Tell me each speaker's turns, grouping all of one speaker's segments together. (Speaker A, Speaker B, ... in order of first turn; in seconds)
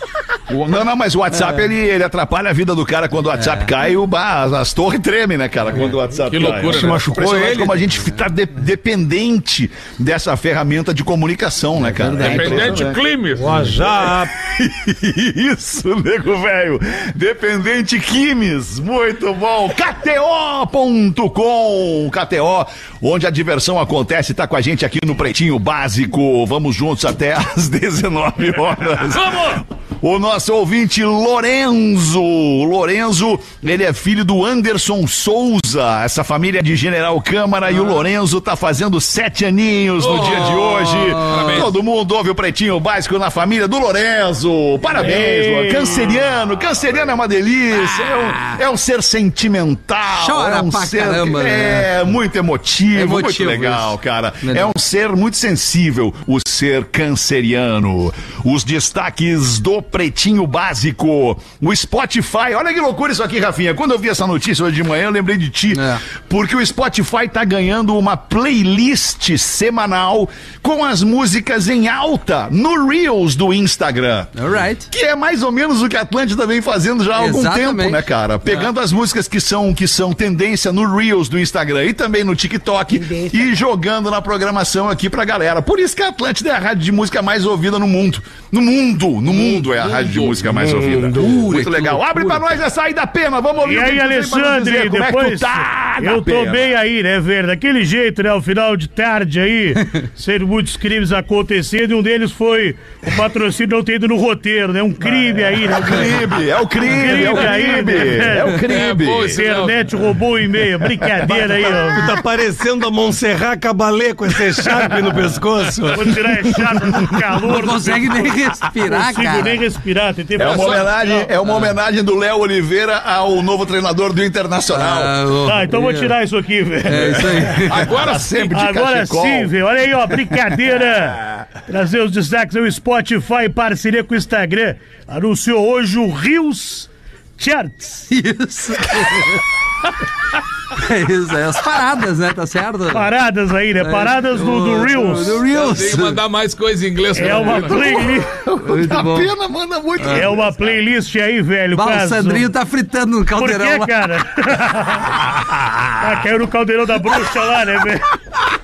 Speaker A: 0.5-13.0, 13.8-96.7, 105.7-109.4, 120.4-125.2, 126.9-129.5, 130.1-130.3, 148.1-150.8, 155.3-155.9
Speaker B: 1.4-1.6, 3.4-3.7, 11.8-12.8, 40.0-41.7, 47.8-48.6, 50.1-52.0, 52.9-54.7, 65.7-66.0, 74.4-74.9, 77.2-78.7, 117.4-119.6, 121.4-121.8, 124.7-126.1, 126.9-127.9, 138.1-139.5, 140.7-143.1, 143.8-146.2, 147.4-148.0, 148.6-149.3, 150.0-150.3, 151.8-153.9
Speaker C: 6.3-7.0, 12.2-13.7, 29.1-29.6, 40.0-41.8, 89.3-90.5, 91.5-92.0, 108.7-109.9, 120.4-121.1, 127.6-128.5, 145.5-148.0
Speaker D: 6.7-7.8, 13.4-14.3, 90.5-91.7, 111.2-116.2
Speaker E: 45.0-46.2, 93.6-108.7, 109.3-112.1, 115.9-121.1, 125.4-127.6, 128.5-138.1, 142.9-145.5, 147.1-148.4, 150.1-152.5, 153.3-155.2, 156.0-158.1